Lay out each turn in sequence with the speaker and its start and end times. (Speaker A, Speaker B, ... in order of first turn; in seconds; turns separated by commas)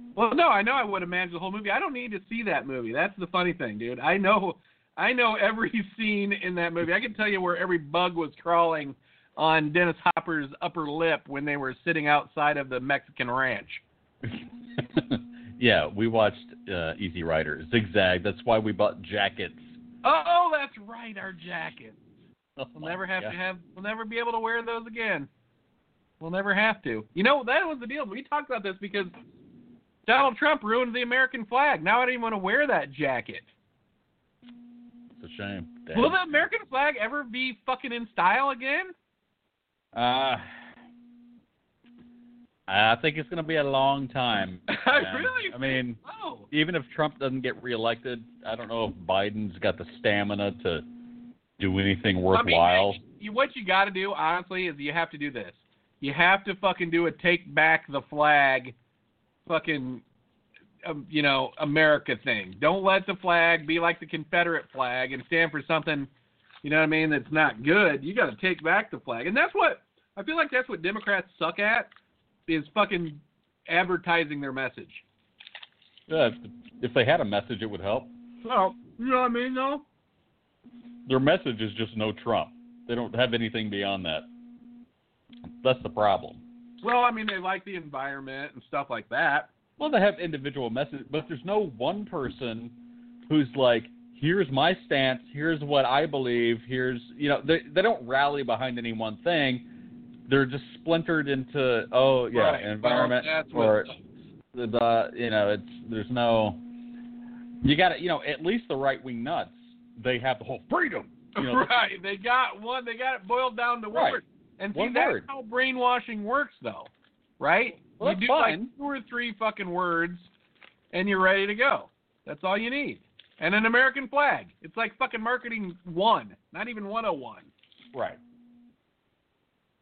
Speaker A: 0.1-13.8, Speaker B: 14.2-19.8, Speaker A: 20.0-22.0, Speaker B: 22.6-23.4, Speaker A: 22.8-25.3, Speaker A: 26.2-29.1, Speaker A: 30.1-33.5, Speaker B: 35.2-36.4, Speaker A: 35.9-38.9, Speaker B: 39.9-40.5, Speaker B: 42.7-46.0, Speaker A: 44.7-46.5, Speaker B: 46.5-50.8, Speaker B: 51.6-53.0, Speaker A: 52.3-58.7, Speaker A: 59.5-60.0, Speaker A: 60.8-66.1, Speaker A: 66.6-71.9, Speaker A: 72.5-75.0, Speaker B: 76.1-78.1, Speaker A: 78.4-79.8, Speaker B: 81.1-84.3, Speaker B: 85.6-86.4, Speaker A: 86.8-89.5, Speaker B: 89.8-92.7, Speaker B: 93.3-99.7, Speaker B: 100.3-103.9, Speaker A: 102.3-104.0, Speaker B: 104.5-106.6, Speaker B: 107.6-111.7, Speaker A: 111.3-120.3, Speaker B: 113.9-114.2, Speaker B: 114.7-115.2, Speaker B: 118.0-118.7, Speaker A: 120.9-127.5, Speaker B: 127.9-128.2